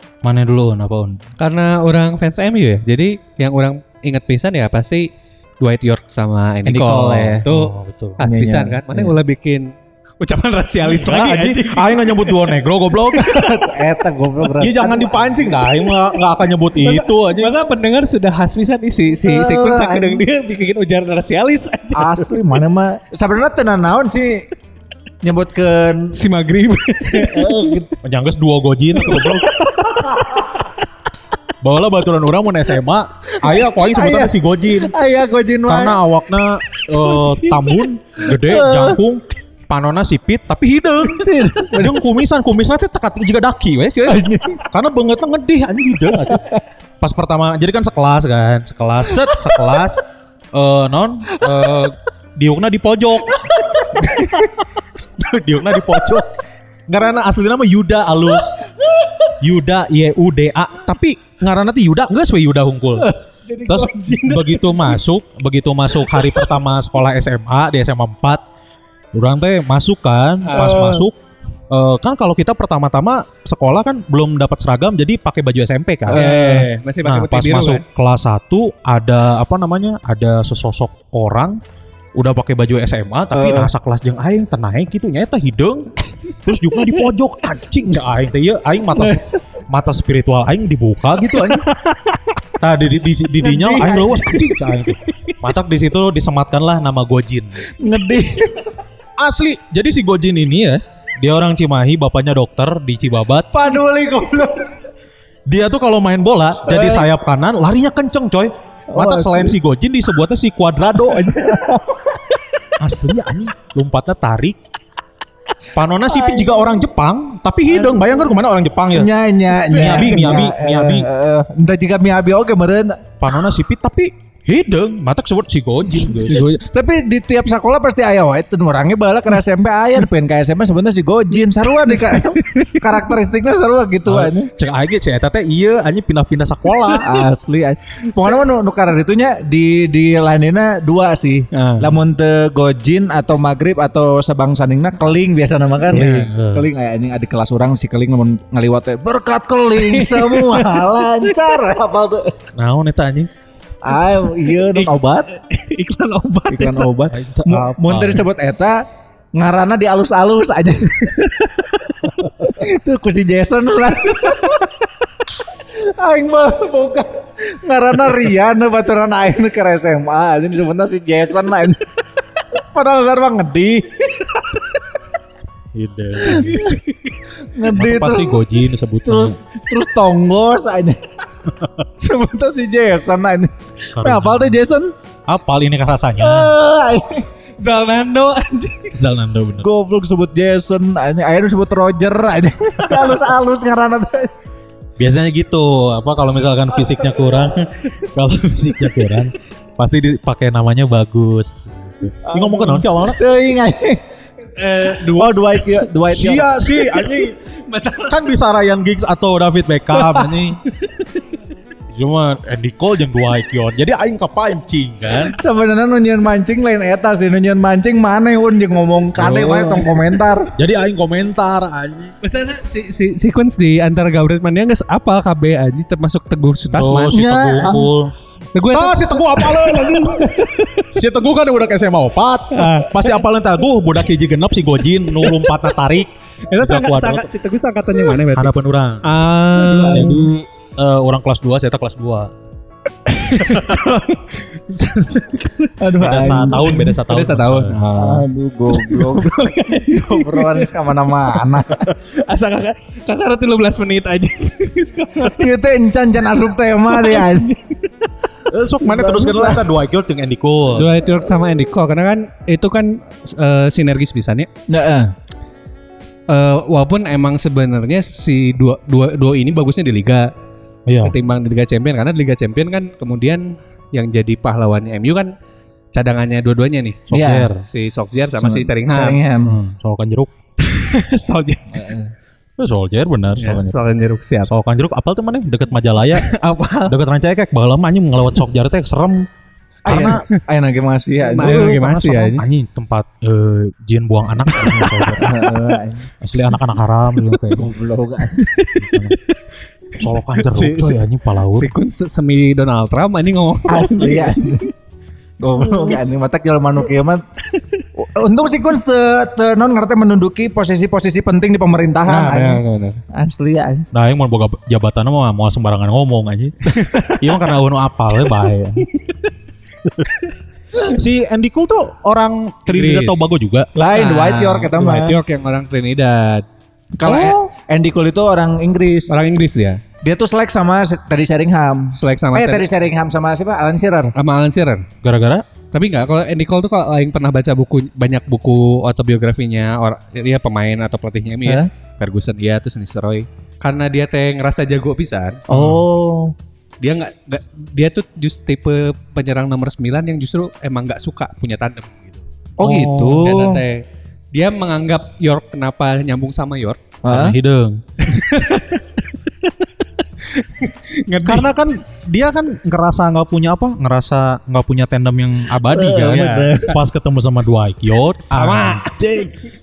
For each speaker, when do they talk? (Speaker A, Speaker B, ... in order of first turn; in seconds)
Speaker A: 0.2-1.2, 6.7-8.2, 10.8-13.7, 14.6-17.5, 28.0-29.5, 31.6-34.9, 35.7-46.5, 47.0-50.0, 50.5-54.3, 55.2-56.3, 56.9-58.5, 59.4-63.1, 63.7-68.4, 69.1-71.2, 71.7-76.3, 77.0-81.6, 82.2-85.9, 86.4-91.7, 92.6-97.7, 99.2-103.5, 105.5-111.4, 112.8-114.6, 115.7-119.1, 119.7-121.1, 123.2-126.5, 134.1-137.1, 145.9-146.7, 152.6-153.3, 157.1-158.3, 175.7-176.7, 177.7-179.4, 183.9-184.6, 185.3-186.6, 189.0-189.7, 195.0-203.2, 206.1-207.4, 208.1-210.6, 211.9-215.4, 219.2-219.6, 220.6-222.2, 226.7-228.1, 228.7-237.3, 238.3-239.1, 239.8-242.3, 246.0-247.8, 258.5-260.9, 270.9-271.1, 277.1-277.6, 279.4-280.3, 282.6-283.8, 284.5-286.3, 286.9-289.3, 289.9-290.2, 291.4-295.4, 296.2-297.7, 298.8-299.2, 300.0-301.7, 313.9-318.9, 320.9-323.7, 335.0-335.4, 345.5-345.8, 352.6-353.5, 357.1-357.8, 361.2-368.9
Speaker B: 1.4-5.1, 5.6-12.6, 16.8-22.4, 26.1-27.8, 29.0-30.5, 37.1-37.5, 63.5-65.0, 70.4-71.0, 76.1-77.8, 119.7-120.1, 131.9-133.1, 141.5-142.0, 145.9-146.3, 149.8-151.3, 153.9-156.9, 161.2-161.5, 176.5-177.1, 187.6-189.0, 204.6-205.8, 206.9-208.2, 210.1-211.2, 219.5-219.9, 222.2-227.2, 228.6-230.9, 232.5-233.2, 235.2-235.5, 236.5-238.5, 239.0-240.2, 243.1-250.7, 251.3-255.4, 256.9-257.9, 260.7-264.5, 266.3-270.3, 271.0-275.3, 275.9-277.0, 277.6-279.2, 280.6-281.9, 283.4-284.5, 286.2-286.9, 289.9-290.4, 291.2-292.4, 294.6-295.3, 298.3-299.4, 300.0-304.6, 305.6-306.0, 307.6-307.8, 312.1-313.0, 316.7-317.5, 322.7-323.3, 323.9-326.5, 329.1-329.8, 331.9-332.7, 334.2-334.9, 335.7-345.4, 346.8-352.3, 353.1-356.8, 358.0-359.7, 360.2-361.5, 365.9-366.7, 368.3-369.3
Speaker C: 8.2-9.1, 13.5-15.5, 19.2-20.2, 21.9-24.5, 25.2-26.2, 27.1-27.9, 29.9-30.4, 33.4-36.0, 38.3-39.0, 41.1-42.0, 44.0-44.6, 54.0-54.4, 70.6-70.9, 76.1-76.7, 83.3-83.7, 89.0-89.2, 93.4-94.6, 97.8-98.7, 103.5-104.7, 106.7-107.1, 108.9-109.5, 111.1-112.0, 116.3-116.6, 119.0-123.1, 125.9-134.5, 137.0-152.3, 153.8-155.3, 156.5-158.8, 159.3-161.2, 162.5-164.7, 165.8-171.8, 172.6-174.6, 176.2-176.8, 177.5-178.4, 179.1-181.0, 182.0-184.9, 186.2-187.3, 189.6-194.3, 202.3-204.0, 205.2-206.5, 215.4-220.5, 227.1-227.9, 239.8-240.2, 245.8-246.9, 248.0-251.9, 255.2-257.5, 258.8-259.6, 264.7-265.1, 277.1-277.5, 278.4-279.6, 281.8-282.1, 289.9-291.8, 295.2-296.1, 297.5-298.4, 303.7-304.7, 305.4-307.2, 308.0-313.9, 323.8-325.2, 327.0-329.2, 330.0-334.1, 345.5-346.3, 352.6-353.6, 357.0-357.4, 365.7-366.8